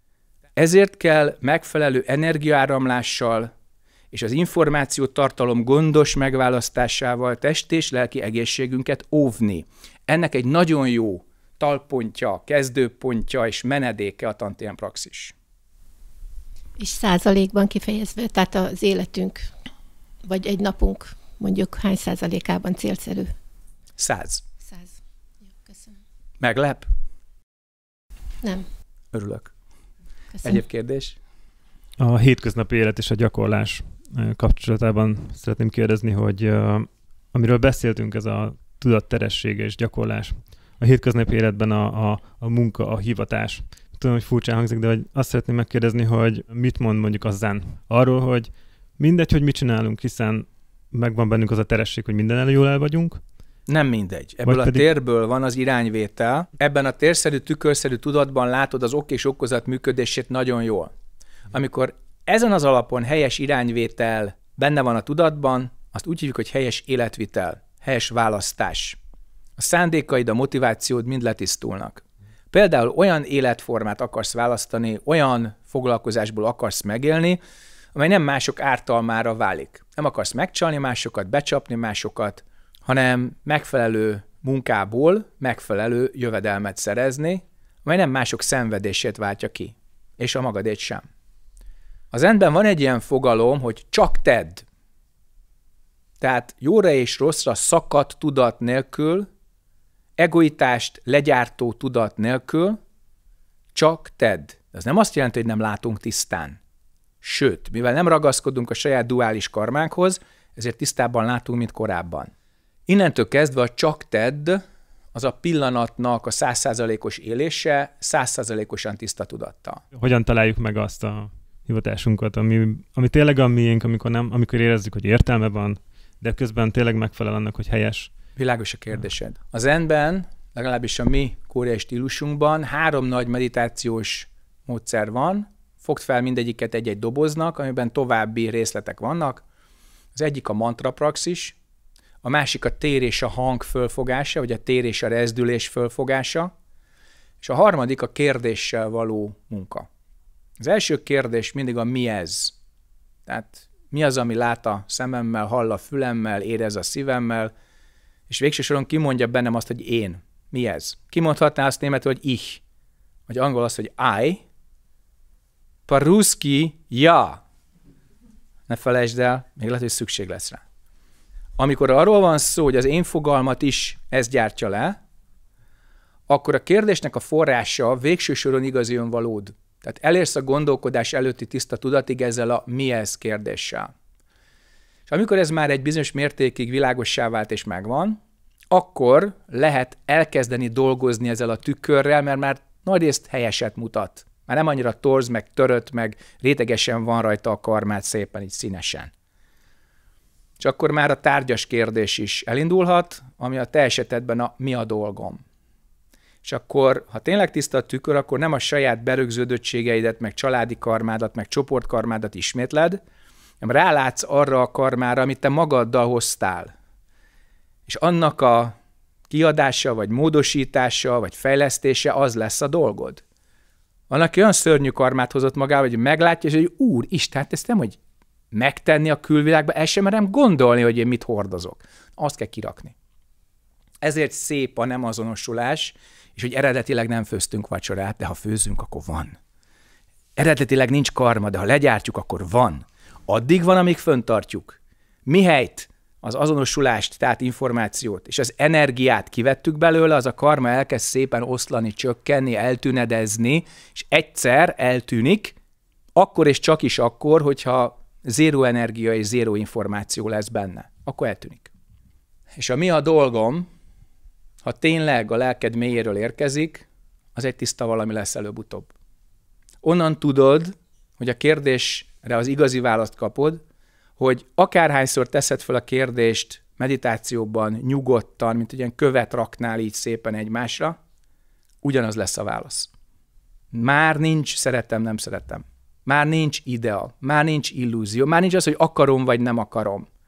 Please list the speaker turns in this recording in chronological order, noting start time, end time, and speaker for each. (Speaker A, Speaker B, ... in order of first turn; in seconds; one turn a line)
Speaker A: 0.6-3.5
Speaker A: 4.1-15.3
Speaker B: 16.8-19.5
Speaker B: 20.2-23.4
Speaker A: 24.0-24.4
Speaker B: 25.6-25.9
Speaker A: 26.4-26.9
Speaker B: 28.4-28.7
Speaker A: 29.1-29.5
Speaker B: 30.4-30.6
Speaker A: 30.4-31.2
Speaker C: 32.0-53.2
Speaker A: 53.7-60.9
Speaker C: 54.4-54.9
Speaker A: 61.5-69.0
Speaker A: 69.6-77.4
Speaker A: 78.0-91.0
Speaker A: 92.1-94.6
Speaker A: 96.2-99.3
Speaker A: 100.2-102.8
Speaker A: 103.8-106.6
Speaker A: 107.2-112.3
Speaker A: 112.9-114.6
Speaker A: 115.1-119.8
Speaker C: 119.9-128.1
Speaker A: 128.4-139.4
Speaker A: 140.2-141.6
Speaker A: 142.2-146.5
Speaker A: 147.4-149.9
Speaker A: 150.6-152.6
Speaker A: 153.3-157.5
Speaker A: 158.3-162.6
Speaker A: 163.3-164.4
Speaker A: 165.9-167.4
Speaker A: 168.7-170.6
Speaker A: 171.6-175.0
Speaker A: 176.3-183.9
Speaker A: 185.1-188.2
Speaker A: 188.7-199.1
Speaker A: 200.6-205.4
Speaker A: 206.4-213.0
Speaker A: 213.6-216.7
Speaker A: 217.9-218.8
Speaker A: 219.3-223.2
Speaker A: 224.1-228.0
Speaker A: 228.5-232.9
Speaker A: 234.0-239.4
Speaker A: 240.4-255.6
Speaker A: 256.1-261.7
Speaker A: 262.6-263.7
Speaker A: 264.6-268.9
Speaker A: 269.8-273.6
Speaker A: 274.2-281.0
Speaker A: 281.8-282.9
Speaker A: 283.7-290.1